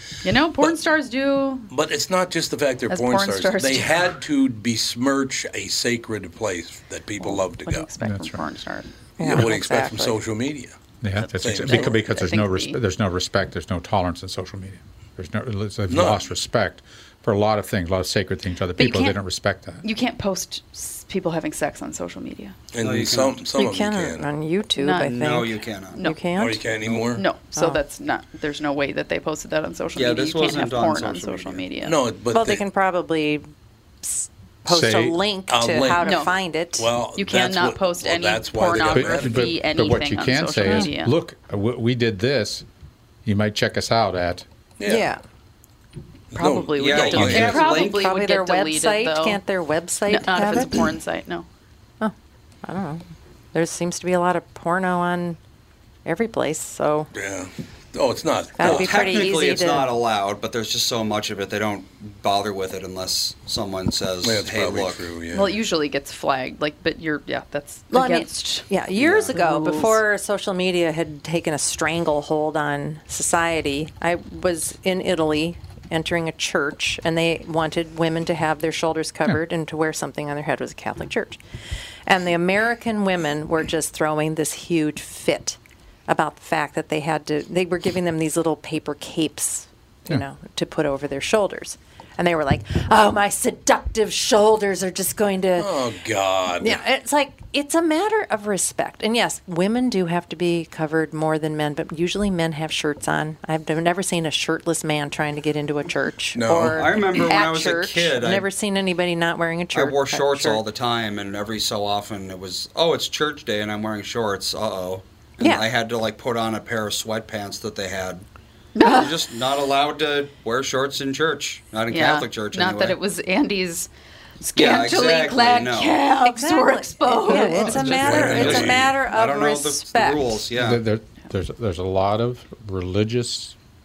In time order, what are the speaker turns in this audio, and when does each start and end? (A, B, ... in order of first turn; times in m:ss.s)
0:00.2-0:01.7 A
0:01.7-0:07.9 B
0:02.9-0:04.2 A
0:07.2-0:08.9 A
0:08.0-0:08.4 C
0:09.2-0:10.8 B
0:09.2-0:10.2 D
0:11.0-0:19.8 C
0:11.2-0:12.8 A
0:11.4-0:12.0 B
0:15.9-0:16.3 B
0:18.8-0:19.2 A
0:19.8-0:22.6 A
0:22.7-0:24.3 B
0:22.8-0:23.4 E
0:23.6-0:26.7 D
0:24.7-0:25.2 A
0:25.0-0:26.0 E
0:26.0-0:26.2 A
0:26.4-0:27.2 B
0:27.2-0:32.0 A
0:30.0-0:31.6 E
0:31.8-0:32.6 B
0:32.3-0:33.4 D
0:34.0-0:36.9 D
0:34.7-0:35.2 C
0:35.5-0:39.6 B
0:36.0-0:36.3 A
0:37.2-0:41.1 A
0:38.7-0:42.7 C
0:43.2-0:44.5 C
0:44.8-0:45.1 B
0:44.8-0:45.2 D
0:46.3-0:47.7 B
0:46.3-0:49.4 A
0:46.8-0:48.0 E
0:47.6-0:51.0 D
0:50.1-0:51.5 A
0:52.0-0:55.4 D
0:56.0-0:57.1 D
0:57.1-0:59.2 B
0:58.6-0:59.9 D
0:58.6-1:05.1 E
1:04.2-1:05.5 B
1:05.3-1:10.0 A
1:07.9-1:21.4 D
1:08.9-1:09.4 E
1:22.1-1:35.8 D
1:35.6-1:36.8 B
1:36.6-1:50.6 D
1:46.4-1:47.0 B
1:46.7-1:48.5 E
1:49.7-1:58.2 E
1:58.8-1:59.2 A
1:58.8-2:03.0 E
2:01.9-2:03.9 A
2:04.4-2:08.0 A
2:04.6-2:06.0 E
2:06.2-2:10.4 D
2:07.3-2:08.5 C
2:07.7-2:10.8 E
2:07.8-2:08.9 B
2:10.5-2:13.6 C